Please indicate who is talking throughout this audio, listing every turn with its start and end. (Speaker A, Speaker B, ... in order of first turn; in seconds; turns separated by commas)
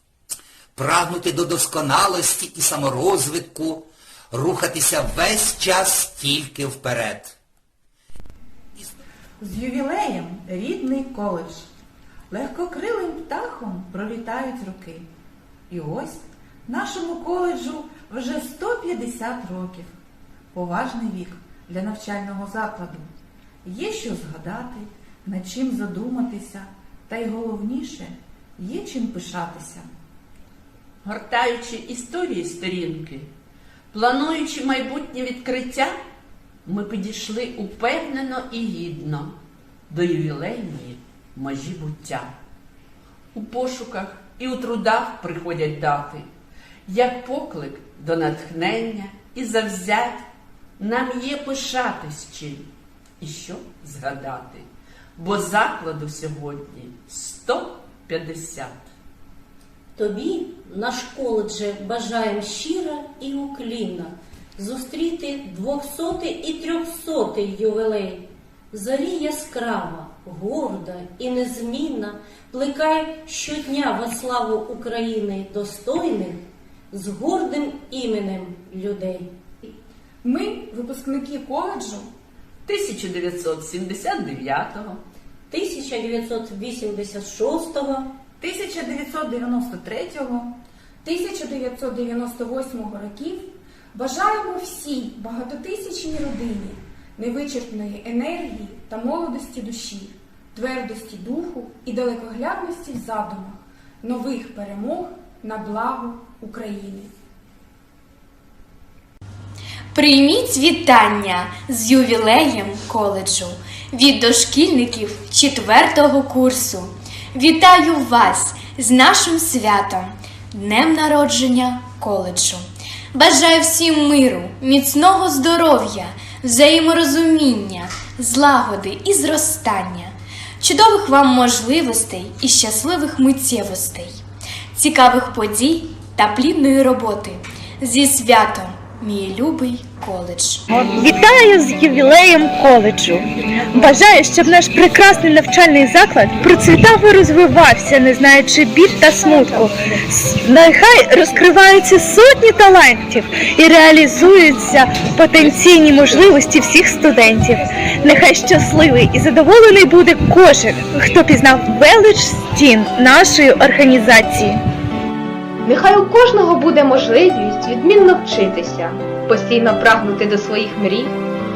Speaker A: 0.8-7.3, Speaker B: 9.4-11.7, Speaker B: 12.3-15.1, Speaker B: 15.7-20.0, Speaker B: 20.5-23.1, Speaker B: 23.6-29.9, Speaker C: 31.0-33.3, Speaker C: 33.9-36.0, Speaker C: 36.7-39.4, Speaker C: 39.9-42.3, Speaker C: 43.3-46.3, Speaker C: 46.9-50.3, Speaker C: 50.8-52.7, Speaker C: 53.2-54.7, Speaker C: 55.2-58.9, Speaker D: 60.0-79.3, Speaker E: 80.2-82.1, Speaker C: 82.7-85.0, Speaker D: 85.5-88.1, Speaker B: 88.4-90.5, Speaker E: 91.0-107.1, Speaker F: 109.9-134.2, Speaker F: 134.7-140.6, Speaker G: 140.7-164.6, Speaker H: 165.6-171.2